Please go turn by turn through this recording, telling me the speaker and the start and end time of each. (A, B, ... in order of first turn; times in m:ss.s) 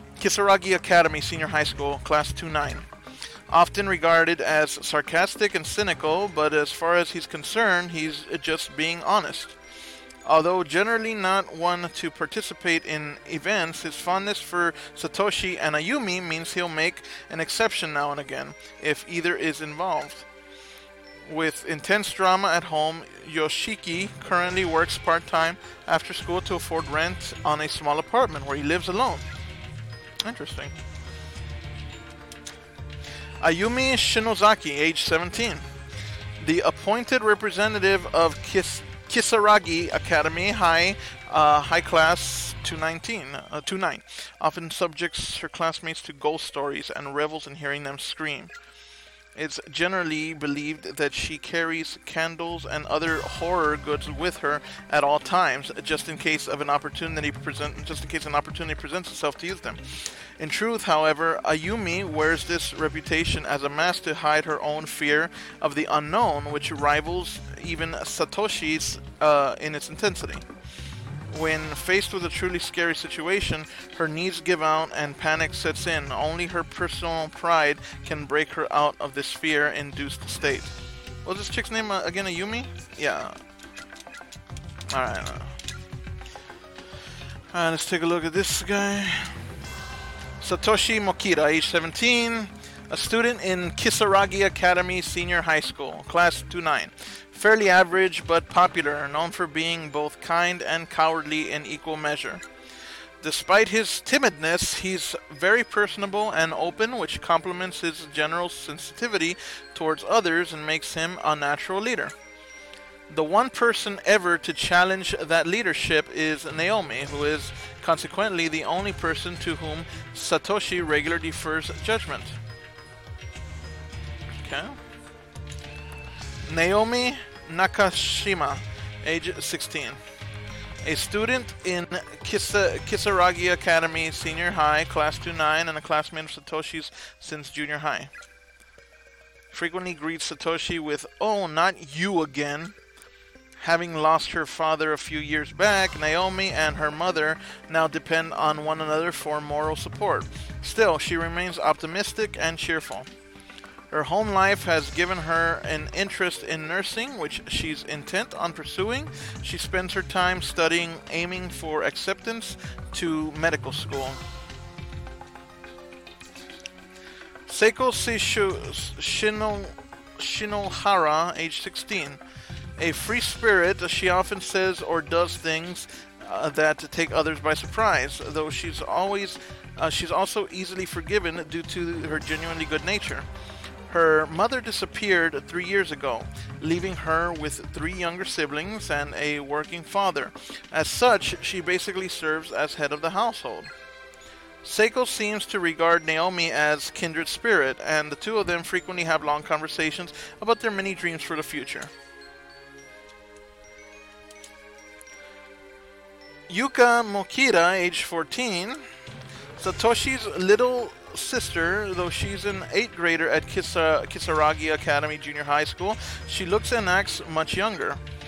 0:00.2-0:02.9 A
0:03.5-0:09.6 A
0:10.2-0:20.3 A
0:21.2-0:29.2 A
0:30.2-0:30.8 A
0:33.4-0:35.7 A
0:36.4-0:48.5 A
0:49.3-1:10.4 A
1:11.3-1:23.4 A
1:24.9-1:25.6 A
1:27.5-1:29.4 A
1:30.4-1:42.4 A
1:43.2-1:52.1 A
1:53.1-2:02.4 A
2:04.4-2:04.8 A
2:06.4-2:10.0 A
2:10.8-2:18.1 A
2:19.5-2:22.8 A
2:23.6-2:33.1 A
2:33.9-2:44.2 A
2:47.5-2:52.2 A
2:52.8-3:03.3 A
3:03.9-3:13.7 A
3:14.6-3:21.9 A
3:26.5-3:28.9 A
3:29.6-3:38.0 A